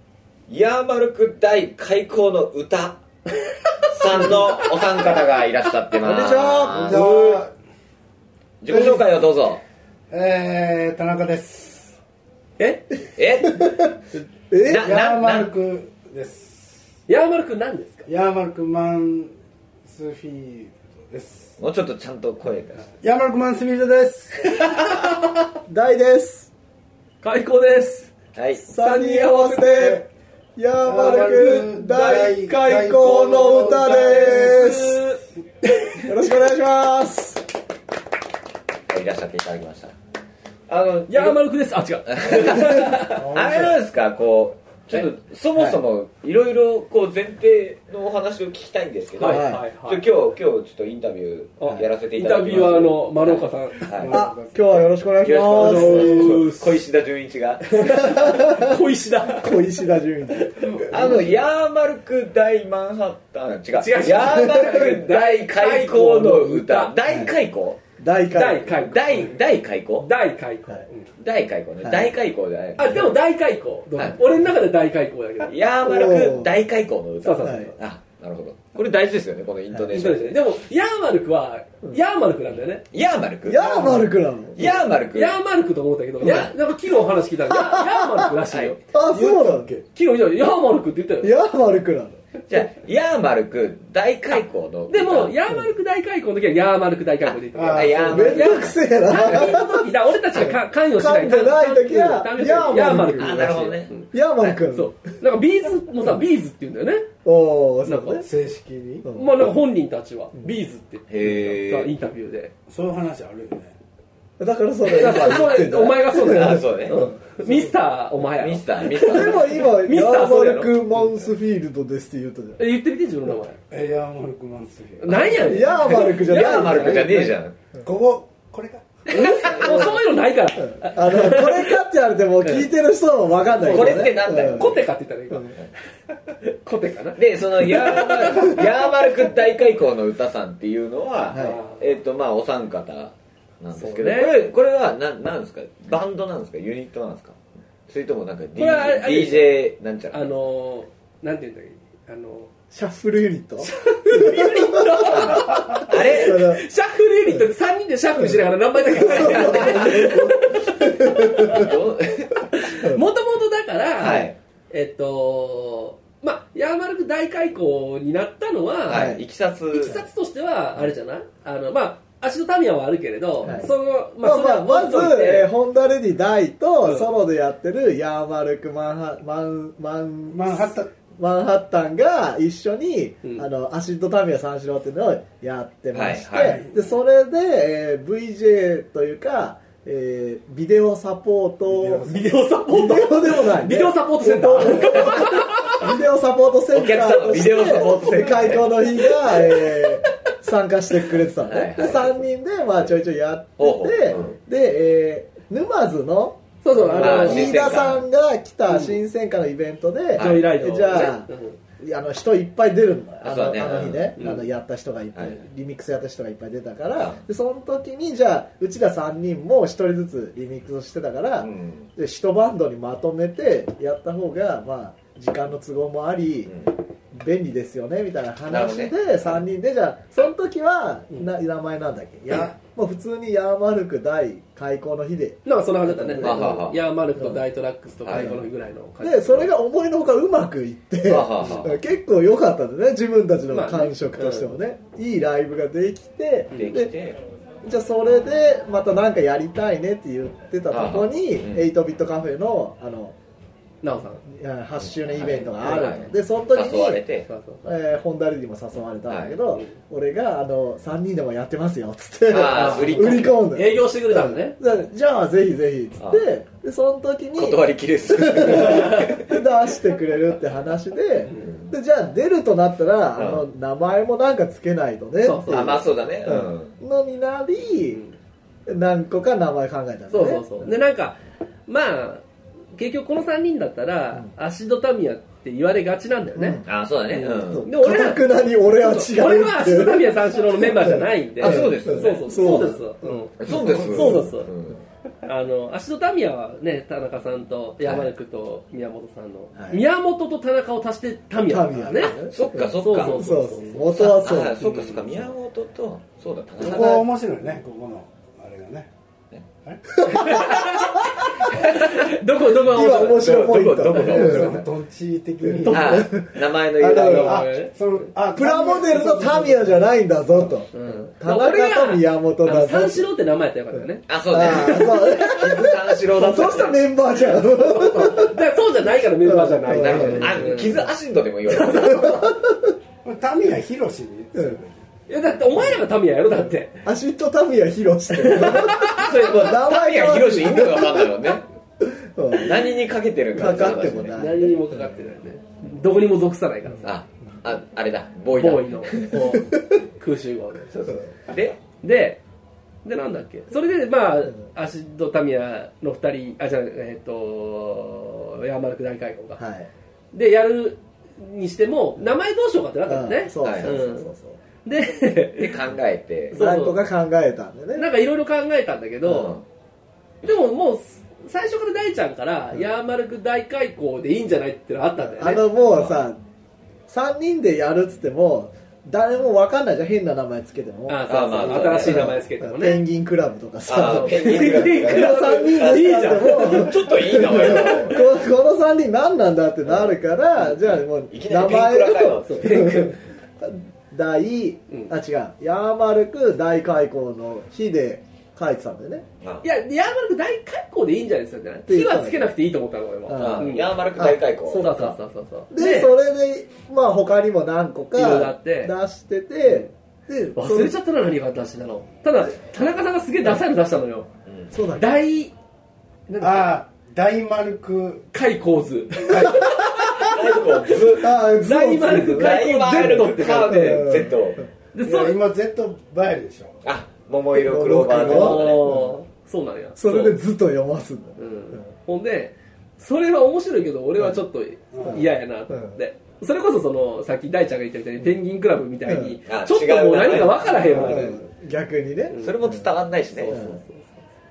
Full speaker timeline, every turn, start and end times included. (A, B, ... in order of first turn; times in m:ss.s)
0:00.5-0:03.0 A
0:03.9-0:07.1 A
0:06.0-0:07.4 B
0:06.7-0:07.5 C
0:08.6-0:09.6 A
0:10.1-0:12.0 C
0:12.6-0:12.9 D
0:13.2-0:13.8 A
0:13.5-0:13.9 B
0:14.5-0:14.9 B
0:14.6-0:15.5 A
0:14.7-0:16.9 C
0:17.1-0:18.1 D
0:18.1-0:19.3 C
0:19.8-0:21.6 C
0:21.6-0:22.9 A
0:23.0-0:24.6 C
0:25.7-0:26.5 B
0:27.2-0:28.1 D
0:28.4-0:28.6 A
0:28.6-0:30.0 B
0:28.7-0:30.0 D
0:29.8-0:30.0 C
0:30.6-0:35.0 B
0:30.8-0:34.8 C
0:31.0-0:36.1 D
0:36.0-0:37.4 B
0:38.9-0:39.9 A
0:40.7-0:41.4 A
0:41.1-0:43.2 D
0:42.1-0:54.2 A
0:42.5-0:43.0 B
0:43.0-0:43.8 C
0:49.2-0:50.1 D
0:49.2-0:49.6 B
0:51.6-0:53.9 D
0:53.9-0:54.9 C
0:54.1-0:56.4 B
0:55.2-0:58.0 A
0:55.5-0:56.8 D
0:55.8-0:56.4 C
0:57.7-0:59.6 D
0:58.1-1:01.2 B
1:00.3-1:00.9 D
1:00.7-1:01.2 C
1:00.9-1:07.8 A
1:03.7-1:06.9 D
1:07.1-1:07.3 B
1:08.0-1:08.8 B
1:08.4-1:09.4 D
1:08.9-1:10.1 A
1:10.0-1:10.9 D
1:11.2-1:13.2 A
1:11.8-1:12.1 B
1:12.8-1:15.6 D
1:15.5-1:20.4 A
1:15.8-1:16.5 B
1:17.2-1:17.8 D
1:17.4-1:17.7 B
1:19.9-1:22.8 D
1:22.9-1:23.8 A
1:23.5-1:24.7 B
1:23.6-1:24.1 C
1:24.6-1:25.4 A
1:25.1-1:28.8 D
1:26.2-1:26.5 A
1:27.5-1:28.2 B
1:28.5-1:28.8 A
1:28.9-1:29.7 B
1:29.1-1:29.8 C
1:29.9-1:31.3 D
1:31.2-1:32.2 B
1:32.5-1:35.4 A
1:34.9-1:44.1 D
1:37.3-1:39.5 A
1:37.5-1:38.5 C
1:38.1-1:45.0 B
1:43.2-1:44.6 A
1:44.7-1:47.1 D
1:47.2-1:48.3 B
1:47.8-1:48.2 D
1:48.2-1:49.1 C
1:49.0-1:49.4 B
1:49.1-1:52.5 D
1:51.1-1:51.9 A
1:52.7-1:53.8 C
1:54.4-1:57.5 B
1:54.9-2:00.8 D
1:56.2-1:57.1 A
1:58.4-1:59.6 A
1:59.0-2:02.6 B
2:02.6-2:03.6 D
2:03.7-2:05.7 C
2:05.0-2:07.3 D
2:05.4-2:07.3 B
2:06.0-2:07.6 A
2:07.8-2:09.8 C
2:09.1-2:09.7 A
2:09.1-2:11.8 D
2:09.4-2:10.0 B
2:10.6-2:14.7 B
2:13.5-2:15.6 D
2:13.7-2:14.8 A
2:16.4-2:18.6 D
2:17.2-2:27.4 A
2:21.3-2:21.6 B
2:21.3-2:21.9 D
2:23.7-2:24.4 D
2:27.9-2:30.3 A
2:28.6-2:29.6 D
2:30.1-2:32.5 D
2:32.7-2:36.6 B
2:33.6-2:41.7 D
2:35.1-2:36.5 A
2:39.0-2:41.7 B
2:39.0-2:40.3 A
2:41.4-2:42.7 A
2:42.5-2:49.2 D
2:42.8-2:43.0 B
2:44.0-2:44.4 A
2:48.9-2:50.0 A
2:48.9-2:49.2 B
2:49.7-2:55.5 D
2:53.4-3:12.2 B
3:00.3-3:00.9 C
3:05.9-3:06.6 A
3:06.4-3:06.9 C
3:11.7-3:12.3 C
3:12.0-3:15.9 D
3:12.7-3:46.6 B
3:16.7-3:19.1 A
3:19.4-3:19.8 D
3:21.4-3:22.2 A
3:23.6-3:24.4 A
3:26.6-3:27.7 D
3:27.0-3:28.1 A
3:28.7-3:29.0 D
3:30.1-3:30.5 A
3:30.2-3:31.6 D
3:33.2-3:34.2 A
3:34.2-3:34.5 D
3:41.4-3:41.9 A
3:46.5-3:46.7 A
3:47.1-3:56.6 B
3:48.5-3:49.4 A
3:55.4-3:59.5 D
3:56.2-3:56.8 A
3:58.0-3:58.3 A
3:58.2-3:58.4 B
3:59.0-4:06.9 B
4:01.1-4:01.8 A
4:03.5-4:04.5 D
4:06.5-4:07.2 A
4:07.6-4:13.2 B
4:10.7-4:11.7 A
4:13.8-4:14.2 D
4:14.2-4:17.0 B
4:15.1-4:17.3 A
4:15.6-4:16.1 D
4:17.3-4:17.6 D
4:17.6-4:38.0 B
4:19.1-4:19.4 A
4:22.3-4:23.4 A
4:22.5-4:24.6 D
4:26.0-4:26.2 A
4:27.4-4:29.4 A
4:31.3-4:31.5 D
4:31.4-4:31.7 A
4:33.2-4:33.4 A
4:35.2-4:35.9 D
4:35.5-4:36.8 A
4:38.7-4:40.7 B
4:40.1-4:42.2 D
4:42.8-4:54.5 D
4:46.4-4:46.7 B
4:46.6-4:47.7 A
4:47.4-4:54.3 B
4:51.4-4:52.3 A
4:53.4-4:54.8 A
4:53.5-4:54.2 C
4:55.2-5:02.2 D
4:57.8-4:58.1 A
4:59.6-4:59.8 B
5:01.4-5:04.7 B
5:02.0-5:03.3 A
5:02.8-5:04.0 D
5:03.9-5:07.1 A
5:04.6-5:05.1 C
5:06.6-5:08.9 C
5:09.6-5:10.3 C
5:10.0-5:11.8 B
5:10.0-5:13.3 D
5:12.5-5:14.6 B
5:12.8-5:14.7 A
5:14.0-5:16.1 C
5:15.5-5:17.4 B
5:15.6-5:16.0 D
5:15.7-5:17.5 A
5:16.9-5:19.9 C
5:17.0-5:18.0 D
5:18.3-5:23.1 B
5:20.7-5:25.6 D
5:24.1-5:26.8 A
5:24.3-5:28.4 B
5:26.3-5:26.7 D
5:27.4-5:30.8 D
5:29.2-5:30.7 B
5:29.7-5:32.2 A
5:31.5-5:32.1 D
5:31.7-5:32.8 B
5:33.0-5:34.9 C
5:35.1-5:36.8 D
5:36.8-5:42.8 B
5:38.2-5:39.4 D
5:38.9-5:41.4 A
5:42.3-5:44.3 A
5:43.3-5:44.6 B
5:44.1-5:47.0 D
5:46.8-5:49.2 A
5:48.4-5:50.9 D
5:49.1-5:49.6 B
5:50.7-5:51.6 A
5:51.8-5:52.2 D
5:52.8-5:59.4 D
5:59.4-5:59.7 B
6:00.1-6:04.1 D
6:02.9-6:04.4 B
6:03.4-6:03.8 A
6:04.6-6:05.6 D
6:05.4-6:06.4 A
6:06.3-6:07.9 B
6:06.3-6:06.8 D
6:07.8-6:09.4 D
6:09.1-6:09.4 A
6:10.2-6:15.5 D
6:15.0-6:16.2 B
6:15.7-6:16.0 A
6:16.9-6:39.1 B
6:20.9-6:22.8 D
6:21.1-6:22.2 A
6:23.7-6:28.1 A
6:23.8-6:27.9 D
6:29.7-6:32.8 A
6:32.3-6:33.0 D
6:39.4-6:43.8 D
6:41.7-6:42.3 B
6:43.1-6:44.9 B
6:43.2-6:44.8 A
6:44.5-6:45.9 D
6:45.5-6:50.7 B
6:48.0-6:48.8 D
6:50.4-6:54.1 D
6:54.5-6:55.0 B
6:54.8-6:55.3 D
6:56.1-6:56.6 D
6:56.2-6:58.1 C
6:58.1-7:04.0 D
6:59.1-6:59.4 C
7:00.0-7:01.2 A
7:01.0-7:04.4 B
7:02.0-7:04.4 A
7:04.7-7:05.2 D
7:04.8-7:06.6 C
7:06.6-7:08.7 A
7:07.3-7:08.9 B
7:07.9-7:10.2 D
7:09.8-7:11.6 B
7:11.2-7:21.2 D
7:14.7-7:15.0 C
7:14.8-7:15.8 B
7:18.8-7:19.2 B
7:19.3-7:21.2 A
7:20.7-7:22.7 B
7:22.1-7:22.4 D
7:22.2-7:23.5 A
7:23.1-7:24.1 D
7:23.3-7:23.6 B